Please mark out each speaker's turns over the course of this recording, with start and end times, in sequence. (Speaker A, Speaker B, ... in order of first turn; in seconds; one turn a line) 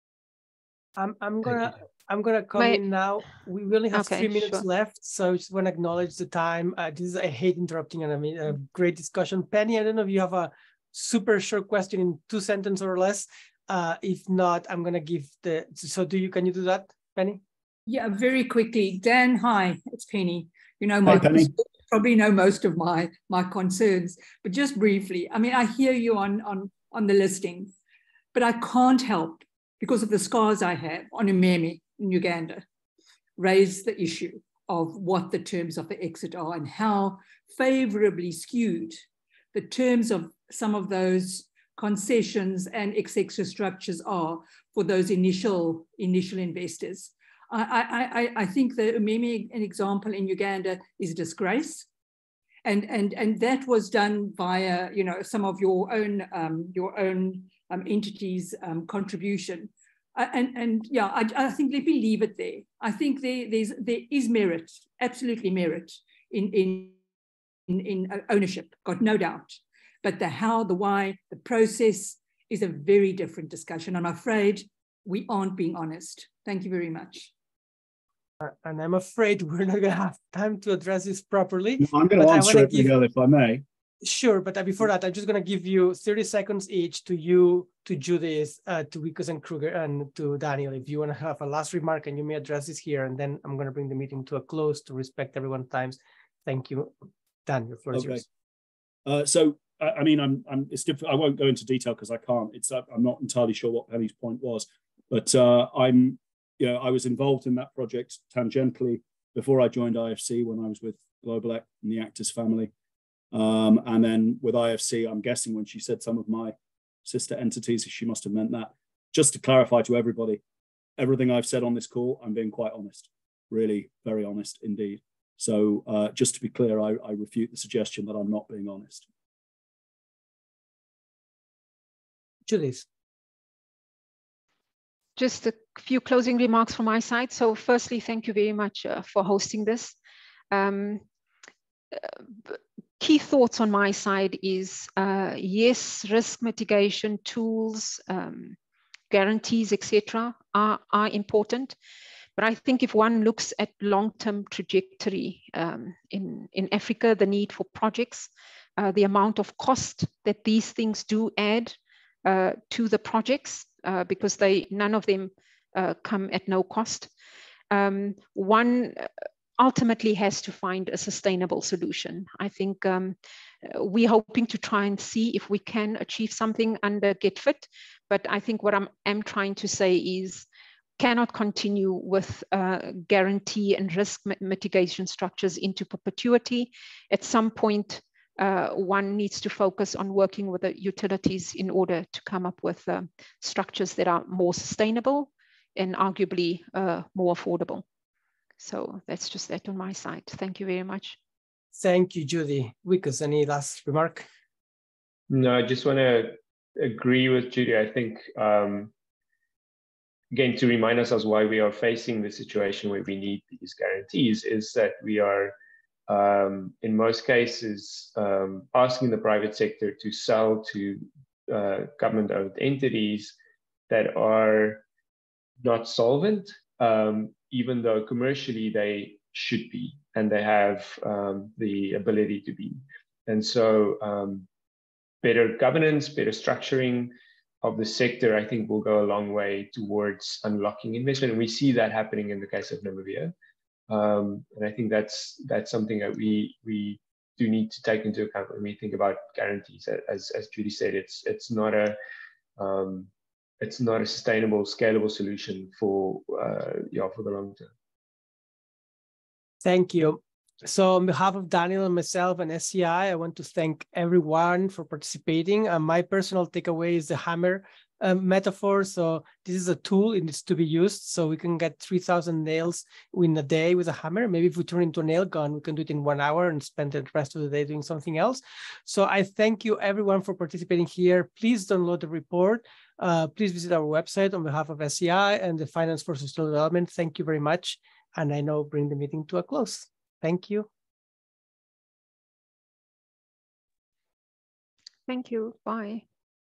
Speaker A: 1.0-17.4
Speaker B: 2.6-2.8
Speaker B: 3.9-4.7
Speaker C: 17.9-27.7
Speaker D: 21.1-21.5
Speaker C: 28.3-32.6
Speaker C: 33.4-39.0
Speaker C: 39.5-51.9
Speaker C: 52.6-67.0
Speaker C: 67.7-77.3
Speaker A: 78.4-82.9
Speaker D: 81.8-83.6
Speaker A: 84.0-96.9
Speaker A: 97.5-98.2
Speaker D: 97.9-98.2
Speaker D: 99.1-112.7
Speaker D: 113.3-120.4
Speaker D: 121.0-129.1
Speaker A: 132.5-132.8
Speaker B: 135.2-140.0
Speaker B: 140.5-141.0
Speaker B: 141.9-148.6
Speaker B: 149.1-151.8
Speaker B: 152.4-167.1
Speaker B: 167.7-180.5
Speaker B: 181.0-197.8
Speaker B: 198.6-201.2
Speaker A: 201.8-204.3
Speaker E: 205.3-208.9
Speaker E: 210.3-215.6
Speaker E: 216.1-223.3
Speaker E: 223.9-224.8
Speaker E: 225.6-234.5
Speaker E: 235.2-243.3
Speaker E: 243.9-252.0
Speaker E: 252.6-253.1
Speaker E: 253.6-257.7
Speaker A: 259.6-290.7
Speaker B: 295.1-296.0